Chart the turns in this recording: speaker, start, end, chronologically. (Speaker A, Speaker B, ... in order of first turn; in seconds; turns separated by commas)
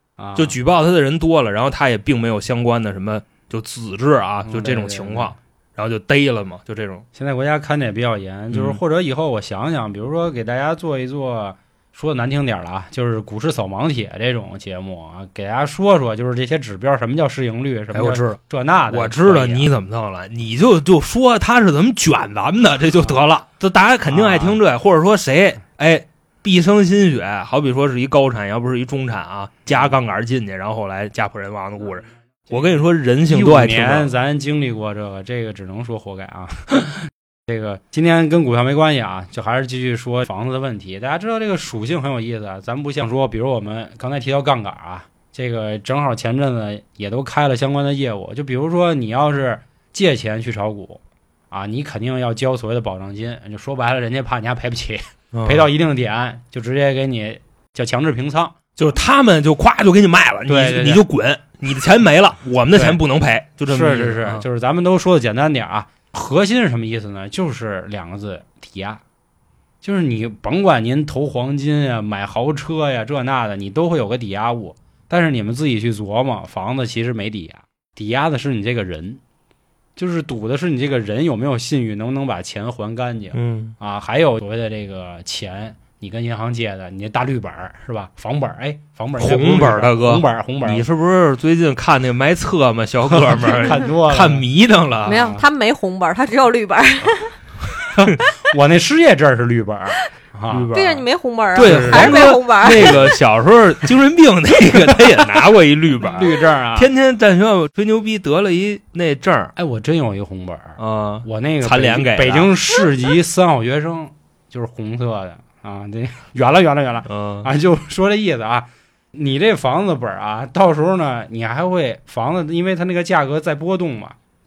Speaker A: 0.2-0.6, Speaker B: 0.4-7.0, Speaker A: 4.5-5.3, Speaker A: 7.1-19.7, Speaker B: 8.5-8.8, Speaker B: 17.9-18.4, Speaker B: 18.9-34.1, Speaker A: 24.1-24.6, Speaker A: 33.3-58.6, Speaker B: 55.3-55.7, Speaker B: 58.8-64.5, Speaker A: 60.5-61.0, Speaker A: 62.7-63.0, Speaker A: 63.7-69.0, Speaker A: 69.8-79.2, Speaker A: 80.0-90.9, Speaker B: 83.3-83.8, Speaker B: 89.2-95.3, Speaker A: 93.2-94.5, Speaker A: 95.0-95.4, Speaker C: 95.0-97.4, Speaker A: 97.9-100.7, Speaker B: 100.5-109.5, Speaker C: 100.7-103.2, Speaker A: 101.6-102.3, Speaker A: 106.1-106.9, Speaker A: 109.6-124.2, Speaker B: 110.8-112.5, Speaker B: 117.1-117.5